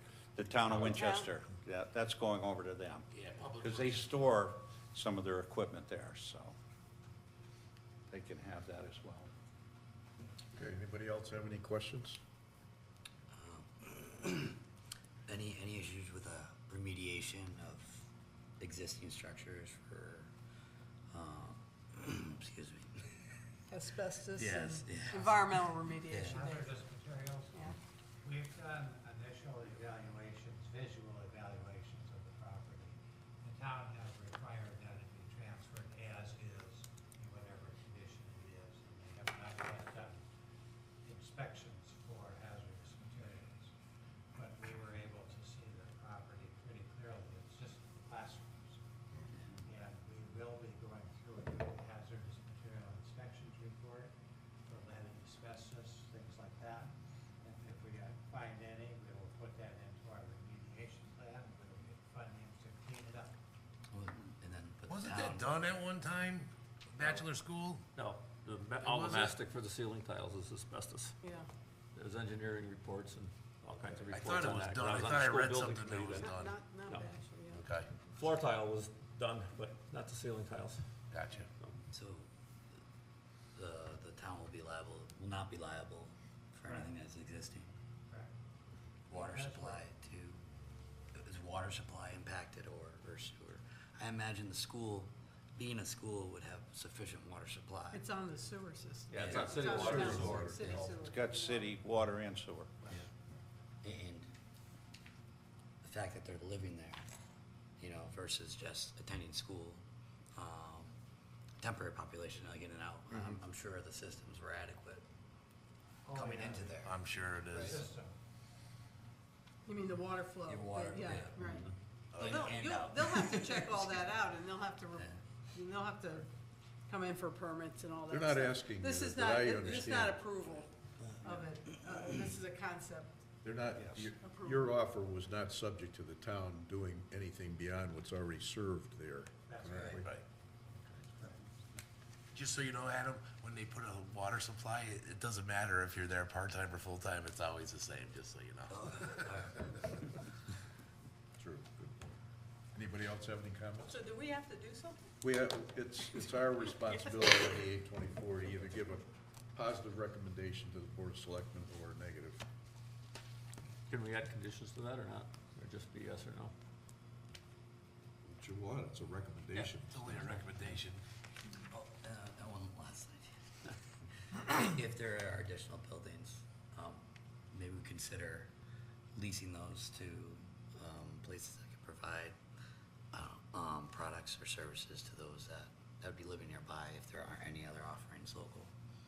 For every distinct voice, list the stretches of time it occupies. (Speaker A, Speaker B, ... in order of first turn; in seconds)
Speaker A: 0.3-3.1, 3.6-6.5, 8.1-9.3, 101.0-102.8
Speaker B: 0.9-1.3, 23.7-26.8, 71.2-71.5, 76.2-77.6, 97.9-101.7, 119.7-121.7, 122.2-126.3, 126.9-130.7, 131.2-133.1, 134.2-134.7, 153.8-155.1, 156.2-157.6
Speaker C: 3.1-4.2, 64.9-67.8, 68.8-69.4, 74.1-76.5, 77.5-77.9, 81.1-81.5, 116.8-117.8, 122.1-122.5, 139.9-140.2, 142.3-149.2, 169.9-171.0
Speaker D: 10.5-12.2, 99.3-101.0, 128.1-130.2, 133.4-140.2, 151.4-152.1, 152.7-154.0, 155.2-162.4, 168.2-170.8
Speaker E: 13.3-14.6, 15.3-18.1, 18.6-20.3, 21.1-23.2, 24.3-26.4, 63.9-65.5, 81.9-82.3, 83.5-87.7, 89.1-90.4, 91.1-98.0, 99.2-100.2, 103.8-104.3, 105.8-107.0, 107.8-109.8, 110.3-110.9, 111.6-115.0, 116.1-117.0, 117.5-117.9, 120.5-123.9, 124.9-125.2, 148.7-149.9, 171.7-173.7, 174.3-178.5, 179.1-182.3, 183.1-188.7
Speaker F: 26.2-27.7, 28.2-40.2, 41.0-43.7, 44.3-48.8, 49.6-54.1, 54.7-63.3, 89.1-89.8, 116.0-116.7, 117.4-118.2, 139.5-140.0, 140.8-141.5
Speaker G: 67.9-71.2, 71.9-76.3, 78.1-80.8, 99.1-100.9, 163.9-166.5